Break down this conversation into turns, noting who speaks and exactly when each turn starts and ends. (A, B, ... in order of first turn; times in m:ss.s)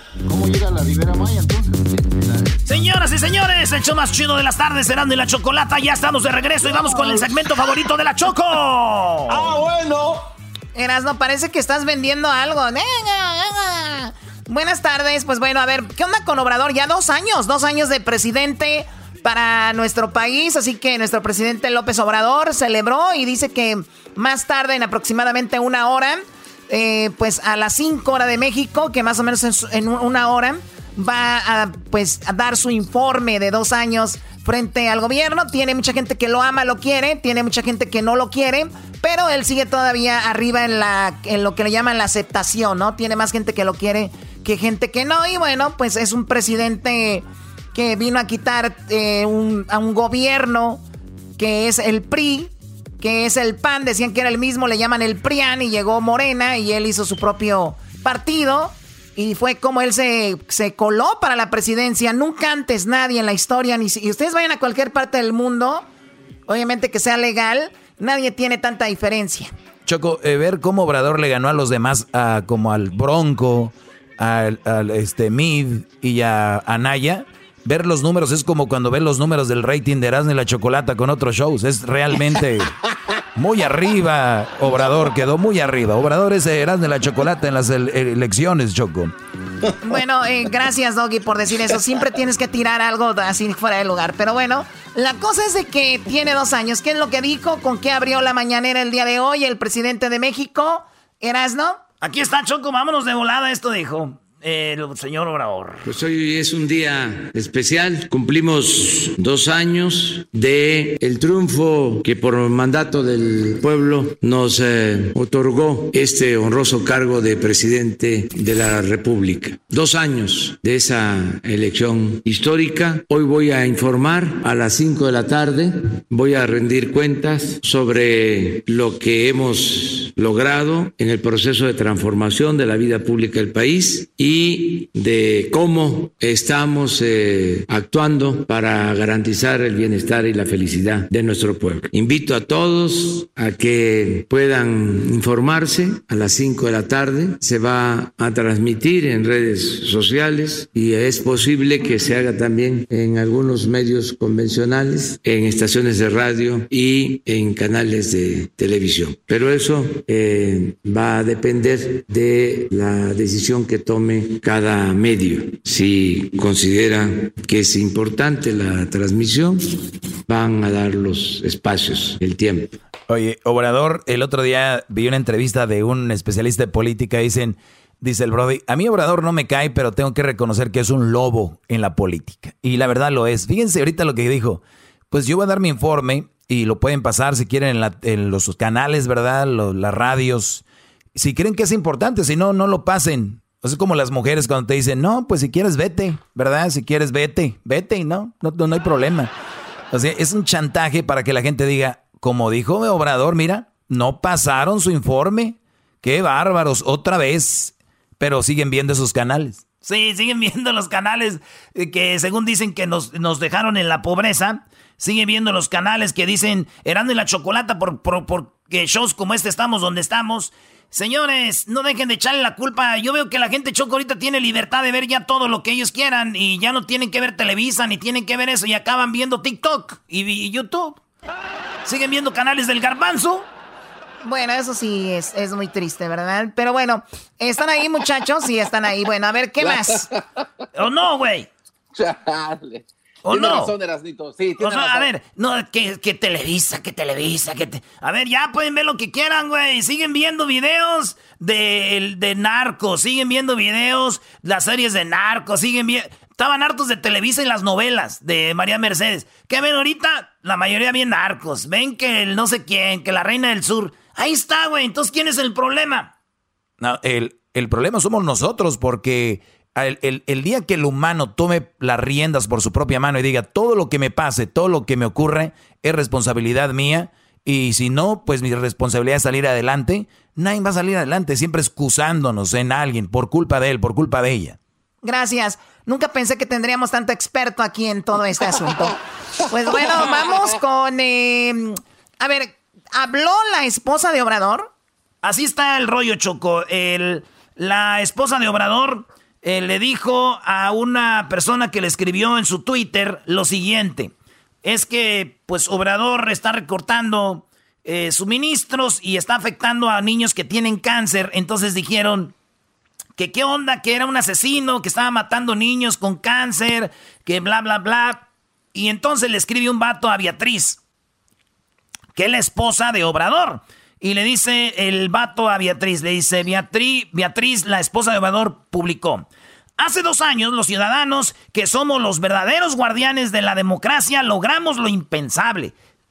0:00.2-0:02.6 A
0:02.6-0:09.6 B
0:09.3-0:10.2 A
0:10.7-0:50.8 C
0:51.4-1:05.8 C
1:06.5-1:09.5 C
1:09.8-1:22.7 D
1:23.4-1:29.1 D
1:29.8-1:41.8 C
1:42.0-1:45.8 B
1:45.8-2:52.7 E
2:53.1-3:10.6 D
3:11.1-3:19.3 D
3:19.9-3:29.6 D
3:29.8-3:51.0 B
3:51.8-3:53.5 B
3:54.2-4:00.1 C
3:59.6-4:00.2 A
4:00.8-4:01.5 B
4:01.9-4:05.1 A
4:03.2-4:03.7 B
4:04.6-4:26.1 B
4:26.8-4:44.6 D
4:45.0-4:49.0 C
4:49.5-4:54.7 C
4:55.2-5:04.1 B
5:04.6-5:12.3 B
5:13.2-5:20.8 B
5:22.2-5:29.2 B
5:29.8-5:35.7 B